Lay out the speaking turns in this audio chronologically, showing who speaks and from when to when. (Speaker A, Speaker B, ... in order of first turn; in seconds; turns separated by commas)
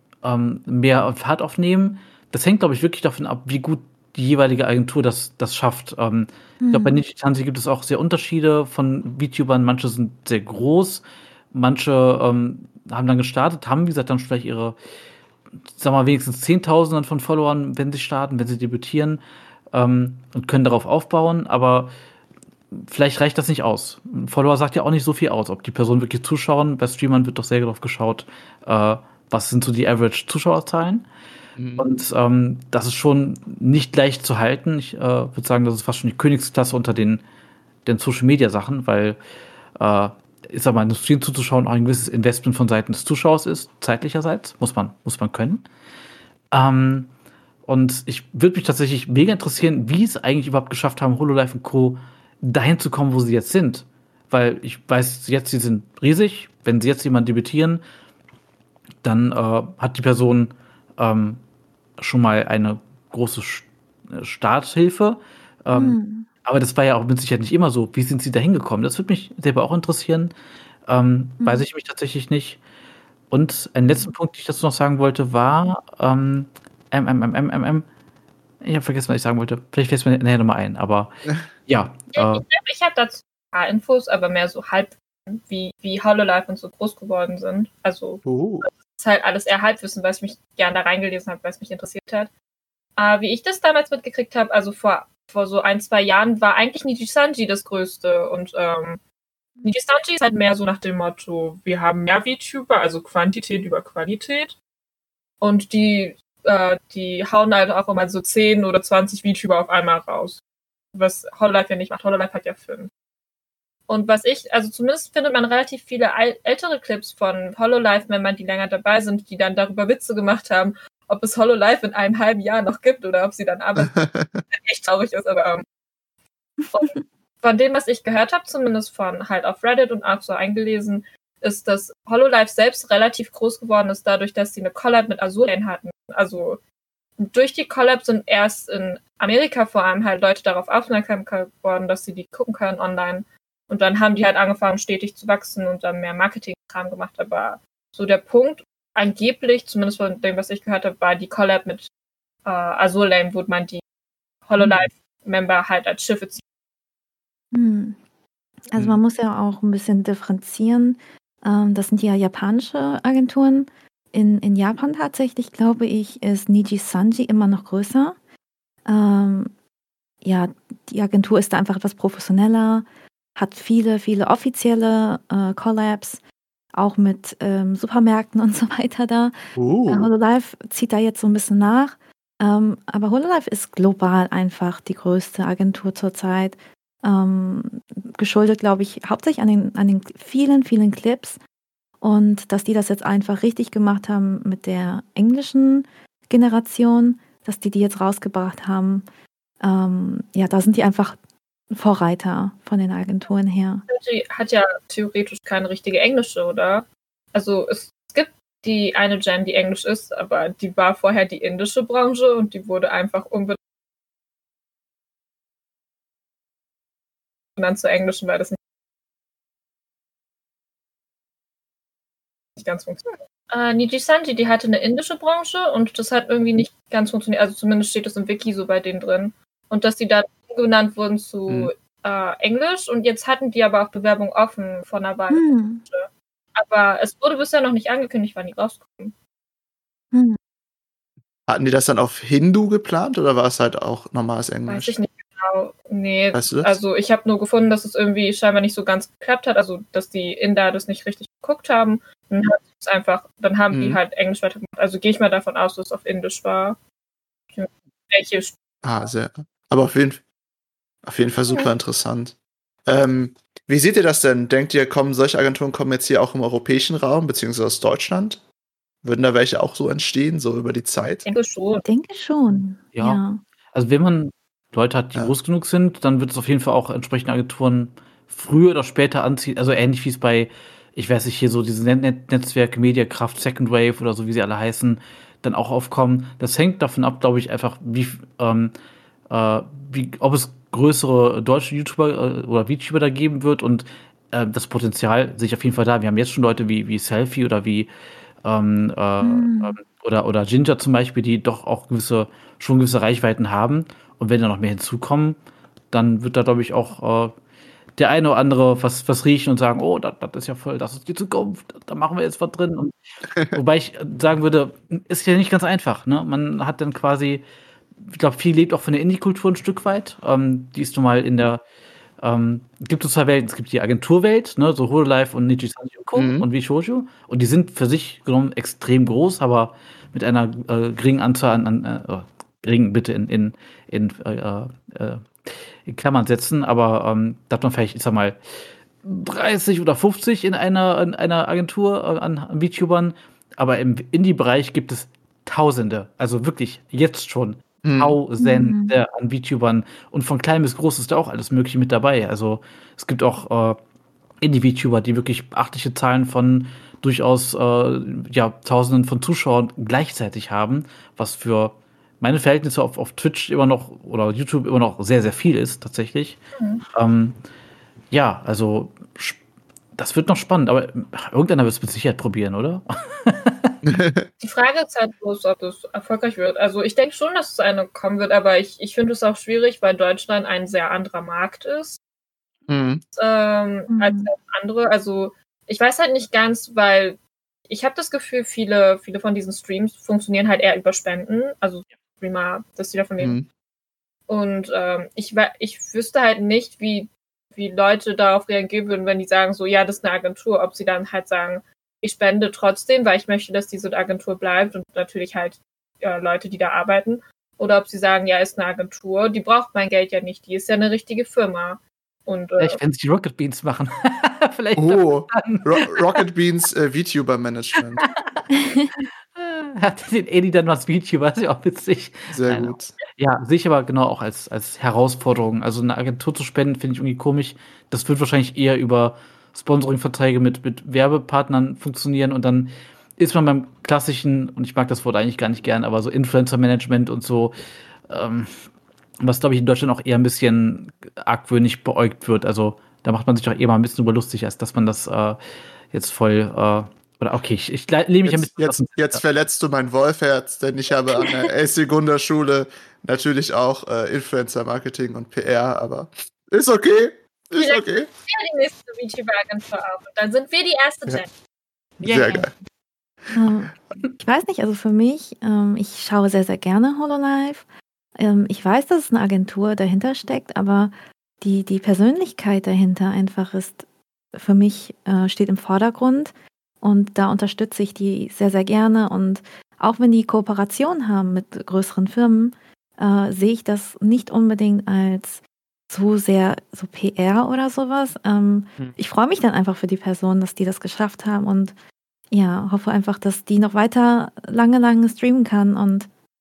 Speaker A: 0.2-14.8, Speaker B: 6.6-7.0, Speaker A: 15.8-19.2, Speaker A: 19.7-21.9, Speaker A: 22.7-31.1, Speaker C: 31.6-31.9, Speaker A: 31.8-37.2, Speaker A: 37.9-39.2, Speaker A: 39.8-45.7, Speaker A: 46.5-47.1, Speaker A: 47.6-57.8, Speaker A: 59.0-61.4, Speaker A: 62.0-70.3, Speaker B: 65.7-66.3, Speaker A: 70.9-72.6, Speaker A: 73.3-77.8, Speaker A: 78.6-81.1, Speaker A: 81.7-82.4, Speaker D: 82.1-92.3, Speaker C: 88.2-88.7, Speaker D: 93.0-99.0, Speaker D: 99.6-104.5, Speaker D: 105.4-110.4, Speaker D: 110.9-112.9, Speaker D: 113.9-125.6, Speaker C: 123.9-124.4, Speaker D: 126.7-136.6, Speaker D: 137.2-151.9, Speaker D: 152.4-153.8, Speaker D: 154.5-156.4, Speaker B: 157.5-158.0, Speaker B: 158.7-168.2, Speaker B: 168.8-169.5, Speaker B: 170.2-176.2, Speaker B: 176.7-179.3, Speaker C: 179.5-180.1, Speaker B: 179.9-191.4, Speaker B: 192.0-199.0, Speaker B: 199.6-201.2, Speaker B: 201.7-203.8, Speaker D: 203.9-213.6, Speaker D: 217.6-218.6, Speaker D: 222.6-239.1, Speaker B: 235.3-235.8, Speaker B: 240.1-240.4, Speaker C: 241.5-245.0, Speaker D: 244.7-256.8, Speaker C: 246.3-246.8, Speaker C: 253.7-254.0, Speaker D: 257.5-258.5, Speaker C: 258.8-260.2, Speaker C: 261.0-262.3, Speaker C: 262.9-268.4, Speaker C: 269.0-271.3, Speaker D: 271.2-271.8, Speaker B: 271.8-273.4, Speaker A: 272.9-273.2, Speaker A: 273.7-288.7, Speaker A: 289.3-297.9, Speaker A: 298.4-305.4, Speaker B: 299.2-299.8, Speaker A: 305.9-307.3, Speaker A: 308.0-312.9, Speaker A: 313.5-317.4, Speaker A: 318.1-321.6, Speaker A: 322.2-338.4, Speaker C: 326.1-326.4, Speaker A: 339.0-353.8, Speaker C: 347.8-348.2, Speaker B: 348.4-348.9, Speaker A: 354.4-366.4, Speaker D: 366.6-366.8, Speaker A: 366.9-367.4, Speaker A: 368.1-369.4, Speaker A: 369.9-373.8, Speaker C: 373.8-374.3, Speaker D: 374.4-382.0, Speaker C: 382.7-383.0, Speaker D: 383.1-393.4, Speaker B: 383.9-384.3, Speaker C: 393.2-393.5, Speaker D: 394.3-412.8, Speaker A: 412.6-416.2, Speaker C: 414.8-418.0, Speaker A: 417.9-418.4, Speaker B: 418.5-419.0, Speaker A: 419.3-437.5, Speaker C: 422.3-423.0, Speaker A: 438.1-438.6, Speaker A: 439.2-445.4, Speaker A: 445.9-449.2, Speaker C: 448.2-458.1, Speaker D: 457.6-461.3, Speaker C: 462.0-462.5, Speaker A: 462.0-462.4, Speaker D: 462.1-462.3, Speaker B: 463.3-467.6, Speaker B: 468.2-491.7, Speaker B: 492.3-496.1